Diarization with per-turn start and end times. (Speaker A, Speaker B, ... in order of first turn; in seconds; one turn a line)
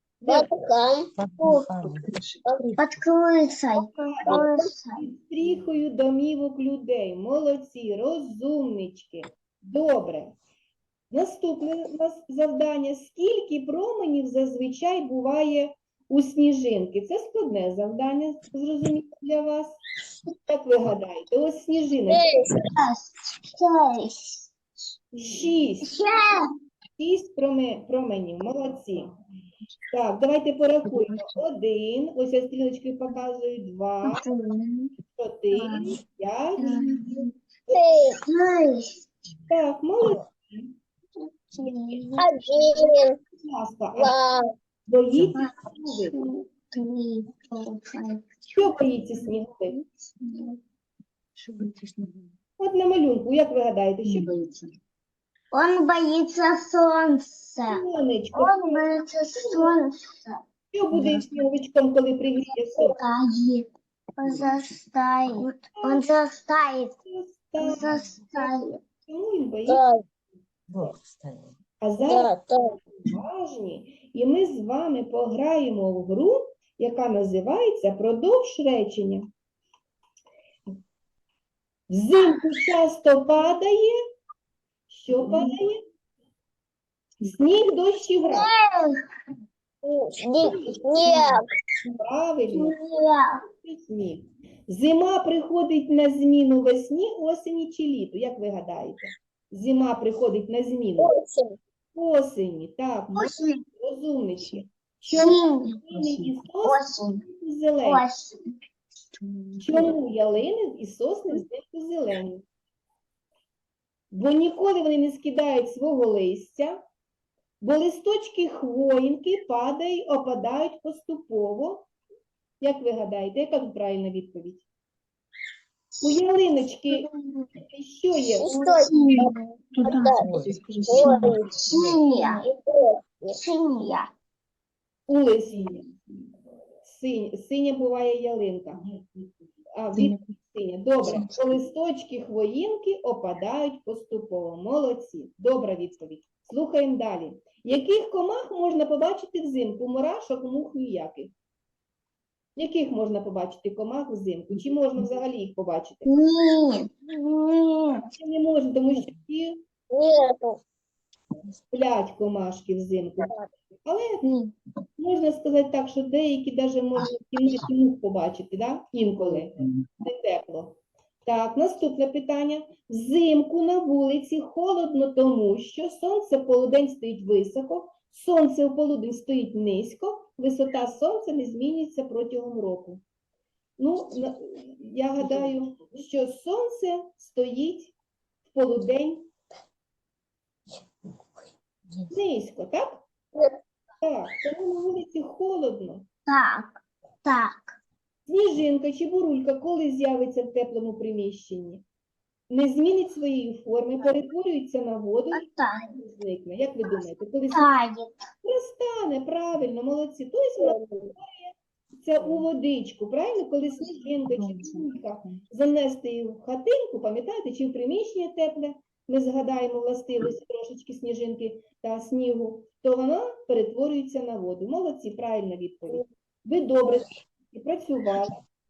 Speaker A: 0.2-0.5
Speaker B: 0.3-1.6
Speaker C: 1.2-2.1
Speaker D: 1.4-2.9
Speaker E: 2.8-5.0
Speaker A: 3.8-10.4
Speaker B: 4.3-4.6
Speaker A: 11.1-19.8
Speaker A: 20.3-22.3
Speaker B: 22.1-22.6
Speaker E: 22.7-24.5
Speaker A: 25.2-26.0
Speaker E: 25.8-26.5
Speaker A: 27.0-29.1
Speaker A: 29.9-34.3
Speaker D: 30.9-31.3
Speaker E: 34.0-34.9
Speaker A: 35.1-36.9
Speaker E: 35.5-36.0
Speaker E: 36.6-37.3
Speaker B: 37.7-38.2
Speaker E: 38.3-39.0
Speaker A: 39.5-40.7
Speaker E: 41.2-42.2
Speaker B: 42.2-43.2
Speaker A: 43.4-44.1
Speaker B: 44.0-44.5
Speaker A: 44.9-46.2
Speaker E: 45.3-48.4
Speaker A: 48.5-49.8
Speaker E: 49.7-50.6
Speaker D: 51.4-52.3
Speaker A: 52.6-54.3
Speaker D: 54.0-54.8
Speaker E: 55.5-57.8
Speaker A: 57.7-59.8
Speaker E: 58.3-60.4
Speaker A: 60.7-63.0
Speaker D: 60.9-61.5
Speaker E: 62.6-66.9
Speaker D: 64.2-64.6
Speaker A: 65.7-66.1
Speaker A: 67.0-69.8
Speaker E: 67.6-68.8
Speaker B: 69.7-70.0
Speaker C: 70.7-71.5
Speaker A: 71.8-79.3
Speaker B: 72.0-72.8
Speaker A: 81.9-84.0
Speaker A: 84.9-85.8
Speaker A: 87.2-88.5
Speaker E: 88.2-89.0
Speaker B: 89.8-91.5
Speaker A: 90.4-92.8
Speaker E: 92.5-93.4
Speaker A: 93.5-101.1
Speaker B: 101.0-101.6
Speaker A: 101.9-108.0
Speaker E: 103.2-103.6
Speaker E: 105.1-105.8
Speaker D: 105.9-106.3
Speaker E: 106.6-107.2
Speaker E: 107.8-108.4
Speaker D: 109.1-110.0
Speaker A: 109.6-112.5
Speaker A: 114.1-116.8
Speaker A: 117.6-121.9
Speaker A: 122.6-124.7
Speaker A: 126.0-128.5
Speaker E: 126.9-127.5
Speaker B: 128.4-129.3
Speaker E: 128.4-130.1
Speaker D: 129.8-132.0
Speaker B: 129.8-130.3
Speaker C: 130.2-130.7
Speaker B: 130.9-133.4
Speaker E: 131.0-132.5
Speaker E: 133.3-134.1
Speaker A: 135.1-135.9
Speaker A: 136.8-138.8
Speaker A: 139.8-151.3
Speaker D: 139.9-140.3
Speaker D: 141.1-141.3
Speaker A: 152.6-156.2
Speaker E: 156.1-158.1
Speaker A: 158.2-159.6
Speaker B: 159.9-160.6
Speaker A: 161.7-164.3
Speaker B: 163.2-163.5
Speaker E: 164.2-164.5
Speaker A: 165.0-183.0
Speaker A: 183.8-187.9
Speaker A: 188.5-189.3
Speaker A: 192.1-193.0
Speaker A: 194.0-196.1
Speaker E: 196.3-197.8
Speaker A: 198.3-201.8
Speaker A: 202.5-207.7
Speaker E: 205.3-206.0
Speaker E: 206.8-208.2
Speaker A: 208.4-228.4
Speaker B: 210.6-211.2
Speaker D: 214.2-215.4